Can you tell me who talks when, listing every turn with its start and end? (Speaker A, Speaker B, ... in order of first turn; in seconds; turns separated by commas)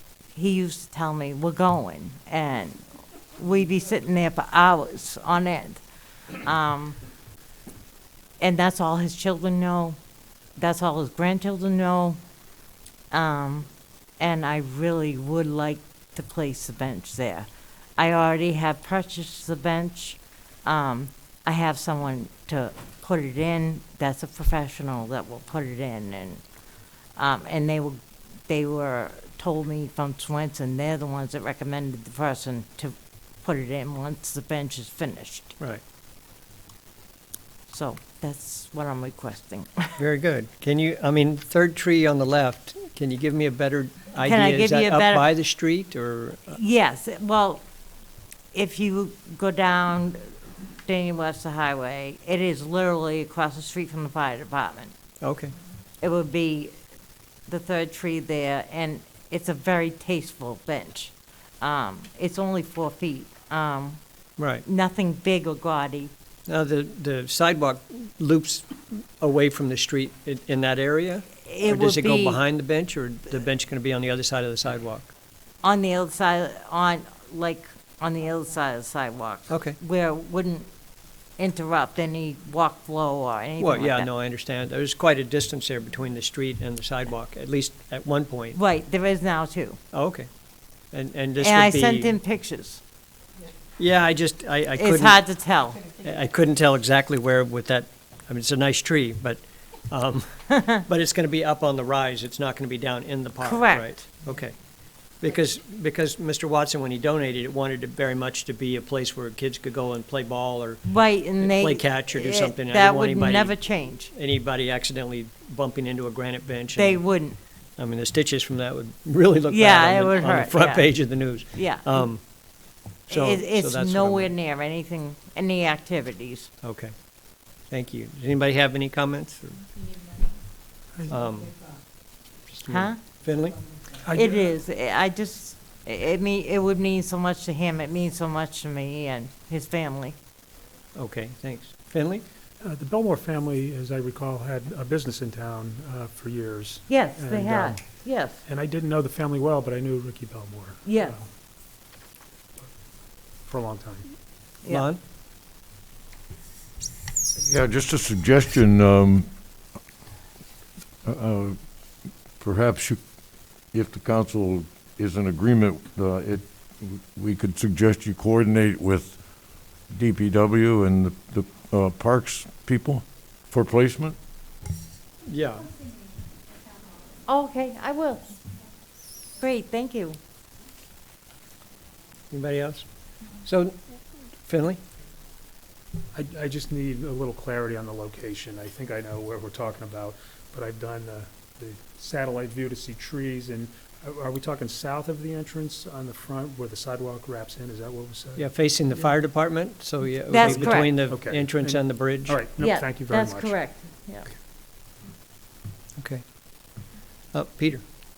Speaker A: 0.3-2.8, Speaker A: 3.4-5.8, Speaker A: 6.4-7.0, Speaker A: 8.4-10.0, Speaker A: 10.6-12.2, Speaker A: 13.1-13.7, Speaker A: 14.2-26.4, Speaker A: 27.1-35.5, Speaker A: 37.7-40.0, Speaker B: 40.0-46.6, Speaker A: 44.2-45.3, Speaker A: 46.5-47.6, Speaker A: 48.5-50.3, Speaker A: 50.8-54.9, Speaker B: 55.2-55.5, Speaker A: 56.0-56.7, Speaker A: 57.5-64.0, Speaker B: 64.4-64.6, Speaker A: 64.6-66.1, Speaker B: 66.5-75.1, Speaker A: 71.4-72.4, Speaker A: 75.6-80.7, Speaker B: 79.5-79.8, Speaker A: 81.4-84.1, Speaker B: 83.6-88.6, Speaker A: 88.5-89.8, Speaker B: 89.9-90.3, Speaker B: 90.9-92.2, Speaker A: 91.4-92.8, Speaker B: 93.8-95.2, Speaker A: 94.8-95.8, Speaker B: 95.8-104.6, Speaker A: 103.4-103.9, Speaker B: 105.2-113.6, Speaker A: 110.8-114.1, Speaker B: 114.1-117.0, Speaker A: 116.7-117.4, Speaker B: 117.8-122.2, Speaker A: 119.5-122.1, Speaker B: 123.1-124.3, Speaker A: 123.1-126.5, Speaker B: 126.6-126.9, Speaker B: 127.7-129.7, Speaker B: 131.1-131.7, Speaker B: 132.5-133.6, Speaker A: 132.7-133.0, Speaker C: 134.0-134.5, Speaker A: 134.1-140.1, Speaker B: 140.9-142.2, Speaker C: 142.6-147.8, Speaker A: 146.9-148.4, Speaker C: 148.4-151.3, Speaker A: 150.8-151.2, Speaker C: 153.4-154.0, Speaker B: 154.7-155.0, Speaker D: 157.4-159.3, Speaker D: 161.0-161.6, Speaker D: 162.4-163.0, Speaker D: 163.7-169.2, Speaker D: 169.9-174.2, Speaker B: 175.2-175.7, Speaker A: 177.2-178.4, Speaker A: 179.3-180.2, Speaker B: 182.3-182.8, Speaker B: 183.4-183.8, Speaker B: 184.4-184.8, Speaker C: 186.1-198.5, Speaker B: 198.3-202.4, Speaker A: 200.3-200.9, Speaker C: 200.5-203.6, Speaker A: 202.6-204.3, Speaker B: 207.3-207.8